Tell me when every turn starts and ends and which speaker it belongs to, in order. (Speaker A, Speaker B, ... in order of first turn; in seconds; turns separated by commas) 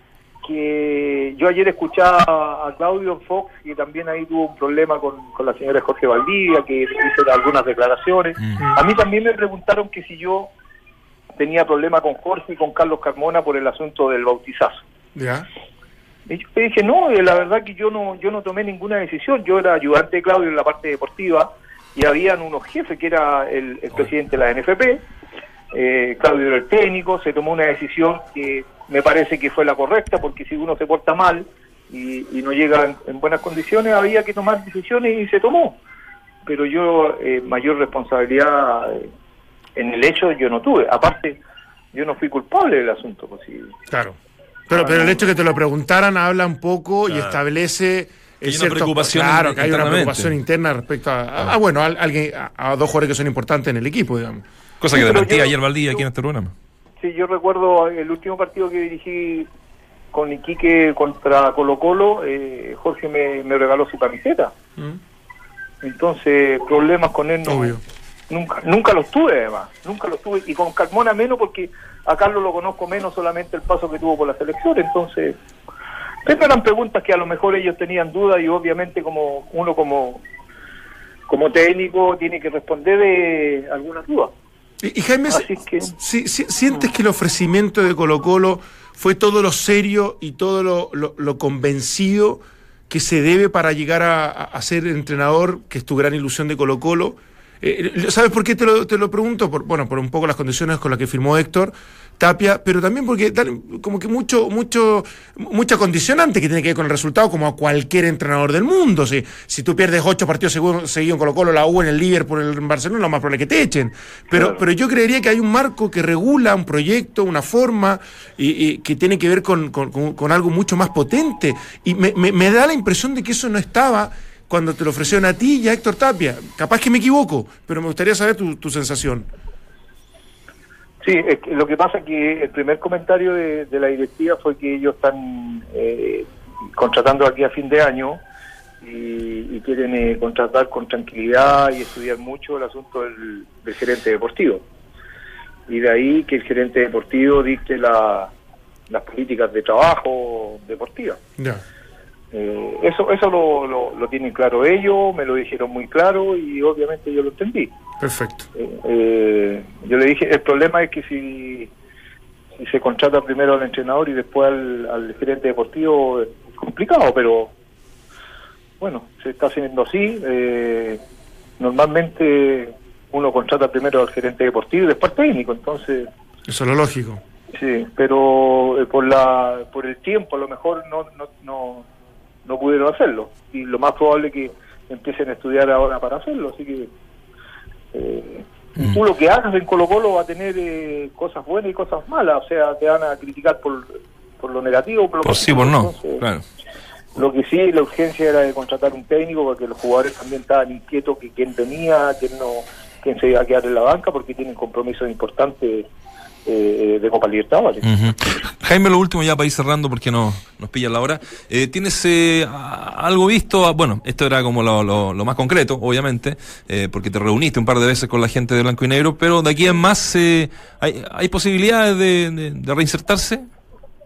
Speaker A: 0.4-10.5, Speaker A: 11.3-14.8, Speaker B: 15.1-15.5, Speaker A: 16.3-25.0, Speaker A: 25.7-35.8, Speaker A: 36.4-39.1, Speaker A: 39.8-41.4, Speaker A: 41.9-43.7, Speaker B: 43.9-44.2, Speaker B: 44.7-54.4, Speaker A: 44.8-45.2, Speaker C: 47.1-47.4, Speaker C: 48.4-50.3, Speaker C: 54.8-56.5, Speaker A: 54.9-56.0, Speaker A: 57.0-59.5, Speaker A: 60.1-64.5, Speaker A: 65.8-67.8, Speaker B: 67.5-67.8, Speaker A: 68.3-75.4, Speaker A: 76.2-80.2, Speaker A: 81.3-84.3, Speaker B: 84.8-129.3, Speaker A: 85.3-85.9, Speaker A: 114.3-114.6, Speaker A: 131.0-138.2, Speaker A: 138.8-144.6, Speaker A: 145.7-148.3, Speaker A: 148.9-151.2, Speaker A: 152.3-157.7, Speaker B: 158.0-158.5, Speaker A: 158.6-161.7, Speaker A: 162.6-167.5, Speaker A: 168.8-171.0, Speaker A: 171.6-176.1, Speaker B: 176.5-177.2, Speaker A: 177.5-181.8, Speaker A: 182.4-186.9, Speaker A: 187.9-196.2, Speaker C: 195.2-196.4, Speaker A: 197.1-205.9, Speaker A: 206.4-208.4, Speaker C: 207.8-223.4